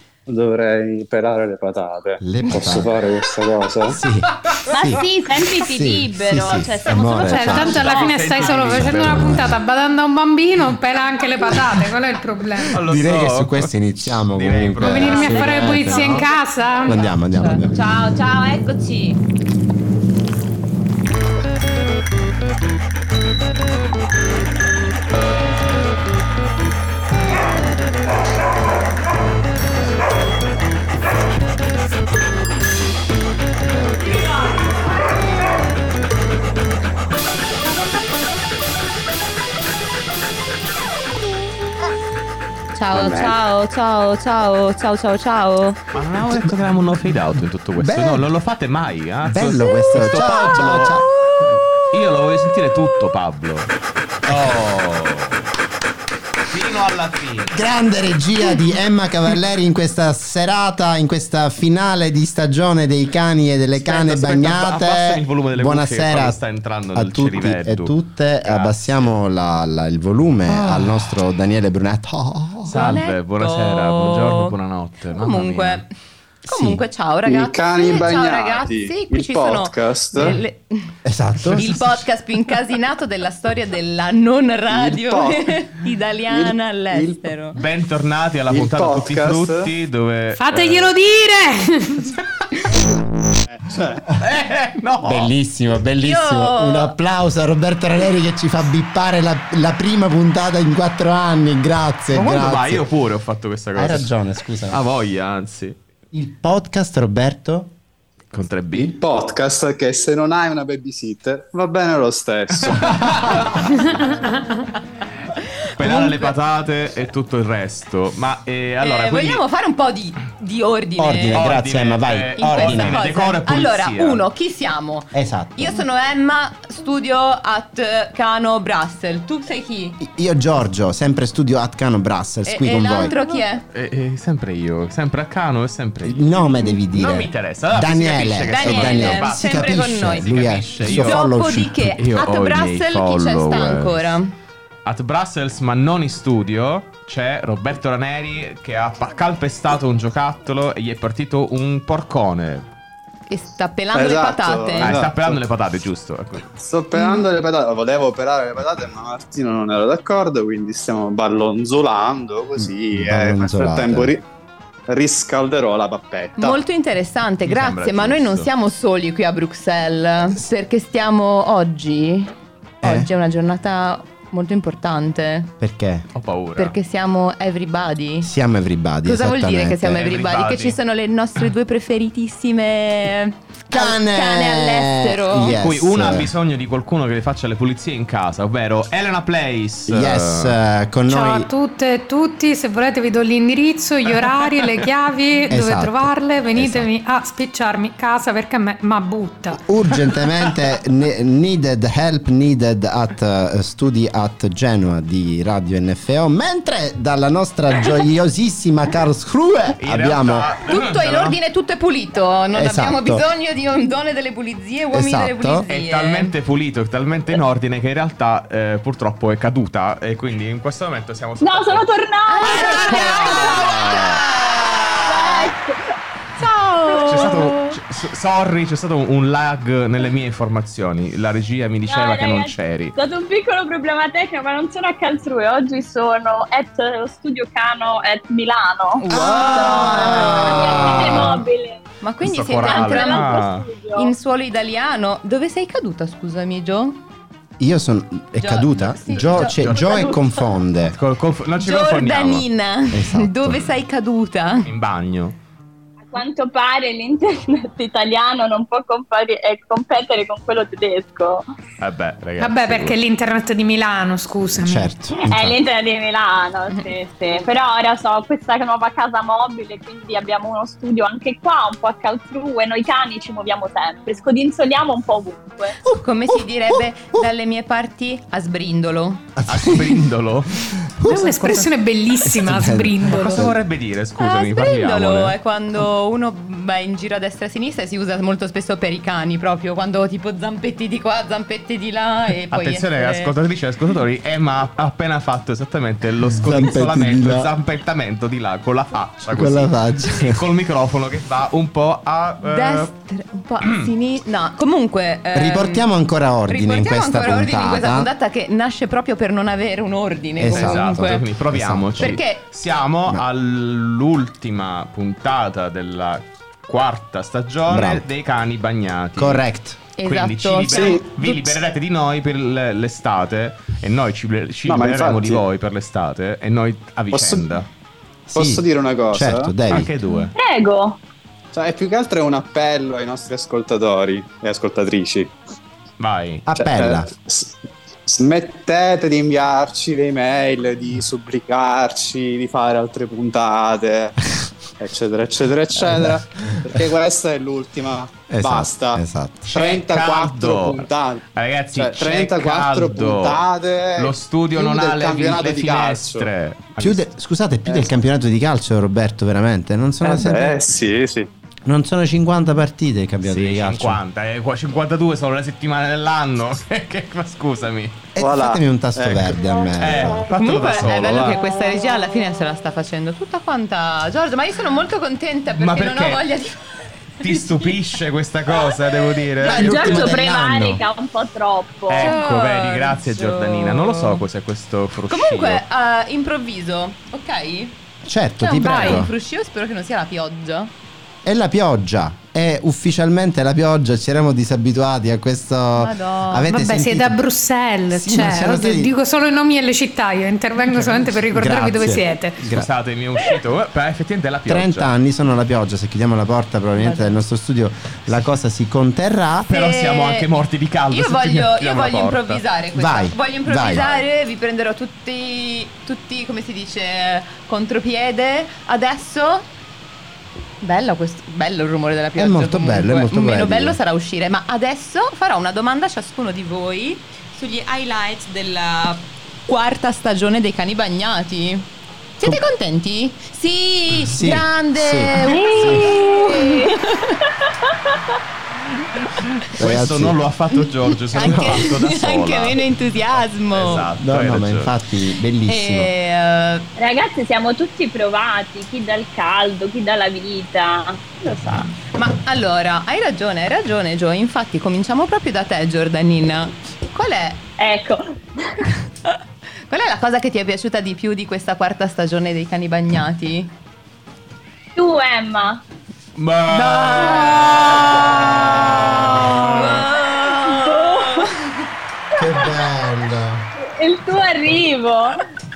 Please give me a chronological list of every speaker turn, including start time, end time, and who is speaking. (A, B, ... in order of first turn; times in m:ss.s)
0:00.3-0:04.0 A
0:02.2-0:03.1 B
0:03.9-0:07.9 B
0:04.7-0:08.1 C
0:07.2-0:12.8 D
0:07.7-0:09.4 E
0:09.0-0:09.5 B
0:12.7-0:15.6 E
0:12.7-0:16.3 B
0:14.8-0:17.1 D
0:15.6-0:15.9 F
0:16.8-0:17.8 B
0:17.0-0:19.2 F
0:42.7-0:45.8 F
0:42.9-0:43.4 B
0:45.9-0:51.0 E
0:46.2-0:46.5 B
0:47.7-0:48.3 B
0:49.2-0:51.6 B
0:51.9-0:53.7 E
0:54.2-0:55.4 E
0:56.5-0:57.6 E
0:57.5-1:06.4 B
1:03.8-1:09.1 E
1:06.9-1:12.9 B
1:10.5-1:11.1 E
1:12.6-1:15.8 E
1:12.7-1:14.5 F
1:15.1-1:15.9 F
1:16.4-1:16.8 B
1:16.5-1:20.9 F
1:17.2-1:20.4 A
1:21.0-1:22.0 B
1:21.5-1:27.6 F
1:24.7-1:25.6 A
1:26.3-1:27.3 A
1:27.5-1:30.9 E
1:28.5-1:29.7 A
1:30.4-1:32.2 D
1:33.5-1:34.0 A
1:34.1-1:35.3 E
1:35.0-1:42.8 B
1:36.0-1:36.9 F
1:42.1-1:45.8 E
1:43.8-1:44.8 B
1:46.1-1:47.7 B
1:48.3-1:49.0 E
1:48.7-1:53.1 A
1:52.6-1:53.5 E
1:52.9-1:53.4 B
1:55.4-1:56.2 F
1:55.8-1:59.4 E
1:58.8-2:01.5 F
2:01.0-2:03.0 B
2:01.3-2:04.2 E
2:02.4-2:10.0 F
2:05.1-2:05.8 B
2:10.0-2:13.1 B
2:12.4-2:13.6 F
2:13.7-2:21.2 E
2:16.0-2:21.9 B
2:18.5-2:24.3 F
2:21.8-2:24.2 E
2:24.8-2:32.6 E
2:33.3-2:35.0 F
2:33.9-2:35.4 A
2:34.8-2:36.5 E
2:36.5-2:44.2 A
2:42.9-2:44.1 B
2:44.9-2:46.6 A
2:46.4-2:55.5 F
2:47.4-2:48.5 E
2:52.8-2:53.1 B
2:55.6-2:56.1 B
2:56.1-2:56.8 E
2:56.6-2:58.3 F
2:58.2-3:00.0 B
2:59.0-3:05.6 F
2:59.9-3:00.8 E
3:03.7-3:06.3 B
3:05.5-3:10.6 E
3:09.9-3:11.5 B
3:11.1-3:19.6 D
3:15.5-3:16.9 B
3:19.6-3:30.5 B
3:29.8-3:31.4 E
3:30.7-3:36.3 F
3:32.5-3:33.2 B
3:34.9-3:35.6 B
3:35.7-3:41.9 E
3:41.4-3:43.8 C
3:42.3-3:45.5 F
3:42.6-3:44.0 B
3:45.0-3:45.8 C
3:46.4-3:47.8 F
3:47.0-3:52.9 E
3:51.9-4:01.8 C
3:59.0-4:01.3 F
3:59.1-4:01.4 B
4:02.0-4:03.4 F
4:02.2-4:03.7 E
4:02.6-4:04.1 C
4:03.9-4:07.0 F
4:07.6-4:11.0 B
4:08.4-4:10.2 F
4:09.2-4:10.2 E
4:10.9-4:12.4 E
4:11.6-4:14.7 F
4:12.9-4:13.6 B
4:14.6-4:15.4 E
4:16.1-4:21.4 C
4:21.8-4:23.0 E
4:22.4-4:24.9 D
4:24.5-4:25.6 B
4:25.3-4:35.8 C
4:35.9-4:37.2 B
4:35.9-4:39.3 F
4:39.4-4:40.0 B
4:39.4-4:40.8 E
4:40.6-4:41.6 B
4:41.0-4:43.5 D
4:42.2-4:43.6 B
4:43.0-4:45.4 E
4:44.2-4:53.3 F
4:52.5-5:02.9 E
4:56.4-4:57.5 B
4:59.3-5:00.5 B
5:02.4-5:05.8 F
5:03.6-5:03.9 E
5:05.3-5:08.1 B
5:06.5-5:11.2 F
5:10.4-5:12.2 B
5:10.5-5:19.4 E
5:12.0-5:12.4 F
5:17.7-5:18.0 B
5:19.2-5:19.8 B
5:20.0-5:21.5 F
5:20.0-5:27.7 E
5:20.7-5:21.0 A
5:24.6-5:25.4 A
5:27.1-5:27.4 A
5:28.3-5:29.9 B
5:28.3-5:29.5 A
5:29.7-5:30.3 E
5:30.3-5:31.0 C
5:31.5-5:35.3 A
5:36.0-5:36.4 E
5:36.5-5:37.1 B
5:36.5-5:37.5 A
5:38.1-5:44.2 A
5:44.8-5:51.2 A
5:48.3-5:49.5 B
5:49.5-5:53.4 E
5:51.7-5:56.3 A
5:54.0-5:57.0 E
5:56.8-6:00.8 B
6:00.0-6:01.3 A
6:01.6-6:04.0 B
6:03.2-6:08.1 E
6:08.1-6:10.2 B
6:08.2-6:09.2 A
6:09.8-6:11.4 E
6:10.3-6:16.6 F
6:15.6-6:16.3 E
6:17.2-6:20.1 E
6:17.2-6:17.6 F
6:19.4-6:20.8 B
6:19.5-6:22.2 C
6:21.9-6:25.6 E
6:21.9-6:24.2 F
6:25.1-6:27.8 F
6:28.0-6:29.1 B
6:28.4-6:30.7 F
6:28.6-6:29.0 D
6:31.2-6:37.2 B
6:35.8-6:36.5 F
6:36.4-6:42.4 D
6:37.9-6:38.9 B
6:41.3-6:42.7 B
6:42.4-6:44.9 E
6:44.5-6:49.5 B
6:46.8-6:47.2 F
6:49.5-6:50.3 F
6:49.5-6:52.4 E
6:50.9-6:59.5 F
6:52.8-6:54.0 B
7:00.6-7:17.2 F
7:02.2-7:03.8 B
7:13.9-7:16.0 B
7:15.3-7:16.8 C
7:17.4-7:18.2 C
7:19.5-7:24.7 E
7:19.6-7:20.2 B
7:21.0-7:23.9 F
7:21.2-7:21.6 B
7:24.0-7:25.9 B
7:25.4-7:26.7 F
7:26.8-7:31.7 C
7:31.9-7:37.4 F
7:37.6-7:38.6 C
7:39.0-7:43.5 F
7:44.8-7:45.6 C
7:46.2-7:48.9 E
7:46.5-7:51.4 F
7:48.5-7:49.5 B
7:50.1-7:51.4 C
7:52.1-7:53.4 B
7:52.2-7:52.6 C
7:53.6-7:55.2 C